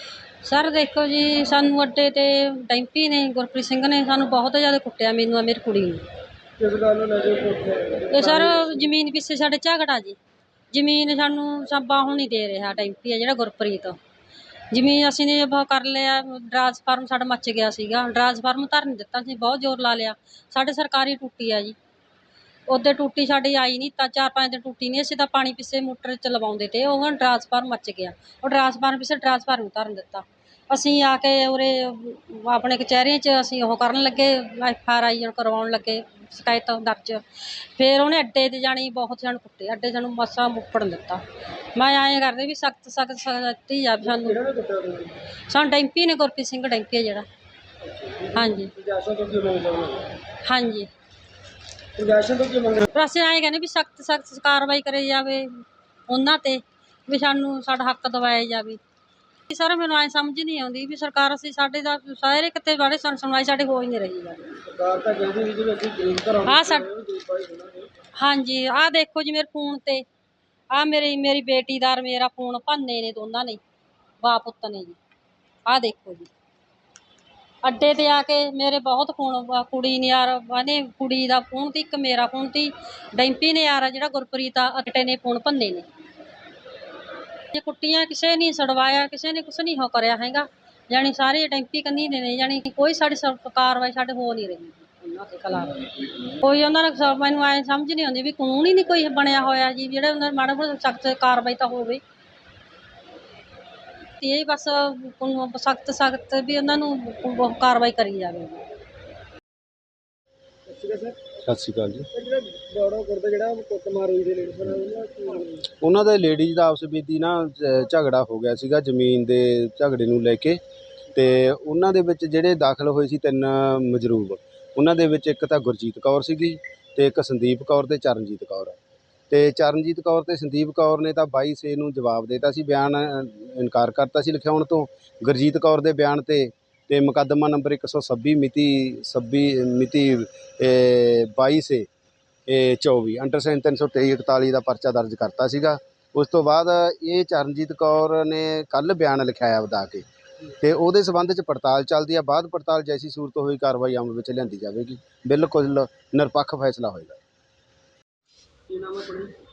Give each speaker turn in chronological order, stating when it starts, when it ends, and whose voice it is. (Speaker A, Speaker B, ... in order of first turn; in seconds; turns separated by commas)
Speaker A: 0.4-6.0, Speaker B: 6.6-8.7, Speaker A: 8.1-10.2, Speaker A: 10.7-14.0, Speaker A: 14.7-21.8, Speaker A: 22.7-41.2, Speaker A: 41.8-44.4, Speaker B: 44.0-45.2, Speaker A: 45.5-47.3, Speaker B: 47.8-50.1, Speaker A: 48.4-48.7, Speaker A: 50.4-50.9, Speaker B: 52.0-52.9, Speaker A: 52.9-58.8, Speaker A: 59.5-64.5, Speaker B: 64.7-67.9, Speaker A: 66.5-66.9, Speaker A: 68.2-70.0, Speaker A: 70.7-73.6, Speaker A: 74.2-75.0, Speaker A: 75.7-76.3, Speaker A: 77.6-85.8, Speaker A: 87.5-102.0, Speaker A: 104.2-108.7, Speaker B: 110.7-111.2, Speaker C: 111.5-112.1, Speaker B: 112.1-115.7, Speaker C: 115.8-120.6, Speaker C: 121.2-128.8, Speaker C: 129.3-141.9, Speaker C: 142.5-150.0, Speaker C: 150.6-157.2, Speaker B: 158.7-159.3